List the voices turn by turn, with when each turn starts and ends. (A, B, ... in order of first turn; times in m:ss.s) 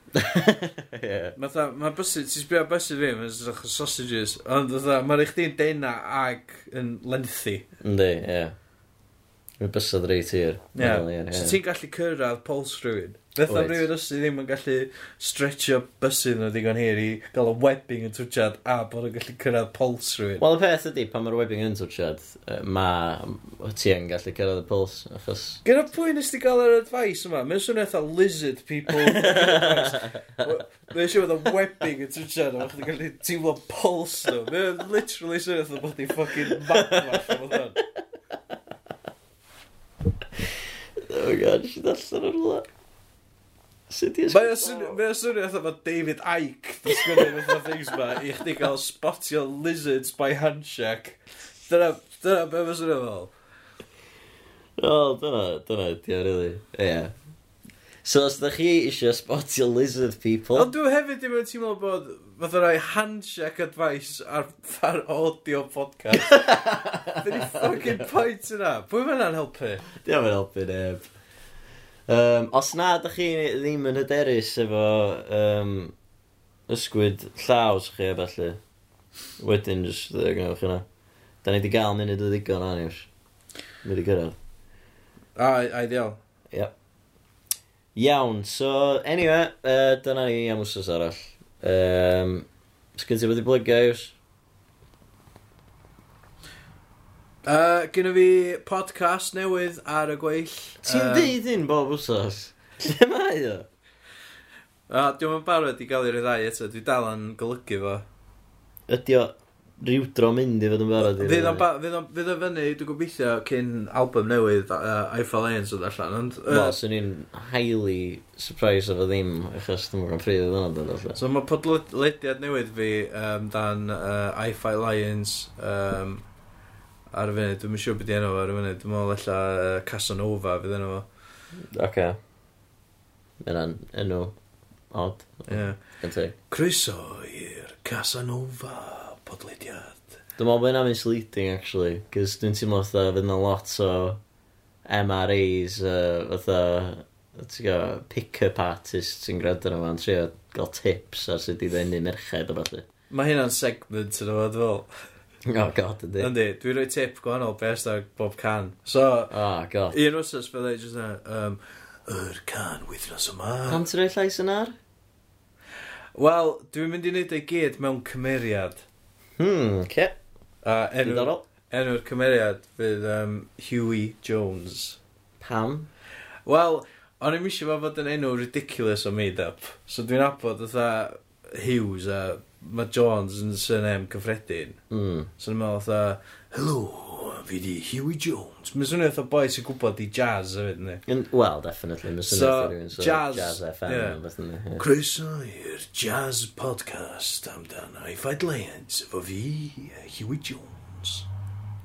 0:00.2-0:01.4 A
0:01.4-0:07.7 B
0:07.8-0:08.6 A
0:09.6-0:11.6 A
0:10.8-0:20.4 B
0:13.5-0:13.9 A
0:20.4-0:25.6 A
0:25.6-0:37.8 B
0:28.9-0:30.4 A
0:36.4-0:37.8 A
0:41.0-0:42.7 A
0:43.9-0:45.0 A
0:44.3-0:53.3 B
0:46.9-0:47.6 A
0:54.8-0:57.1 A
0:58.0-1:00.7 A
1:00.6-1:06.6 B
1:06.2-1:08.1 A
1:07.2-1:09.8 B
1:10.0-1:11.1 A
1:12.1-1:15.9 A
1:16.7-1:18.6 A
1:19.4-1:20.8 A
1:21.4-1:23.1 A
1:23.8-1:24.4 A
1:25.4-1:26.2 B
1:28.0-1:34.2 A
1:37.4-1:41.4 B
1:40.8-1:43.7 A
1:44.9-1:48.0 B
1:48.9-1:51.6 A
1:51.0-1:56.8 B
1:56.5-2:01.2 A
2:01.2-2:06.2 B
2:07.1-2:11.0 B
2:11.7-2:12.2 A
2:13.4-2:14.4 A
2:14.9-2:16.4 A
2:15.5-2:15.8 B
2:16.5-2:20.0 B
2:20.4-2:24.2 A
2:24.8-2:32.9 A
2:33.1-2:34.9 B
2:35.5-2:36.3 A
2:36.2-2:39.3 B
2:39.3-2:40.0 A
2:39.9-2:43.9 B
2:43.7-2:44.8 A
2:46.2-2:48.8 B
2:49.4-2:50.2 A
2:50.6-2:55.0 B
2:51.0-2:51.4 A
2:55.4-2:55.9 A
2:56.5-3:04.8 B
3:04.9-3:05.3 A
3:05.4-3:11.0 B
3:11.1-3:14.8 A
3:12.3-3:14.2 B
3:14.8-3:21.3 B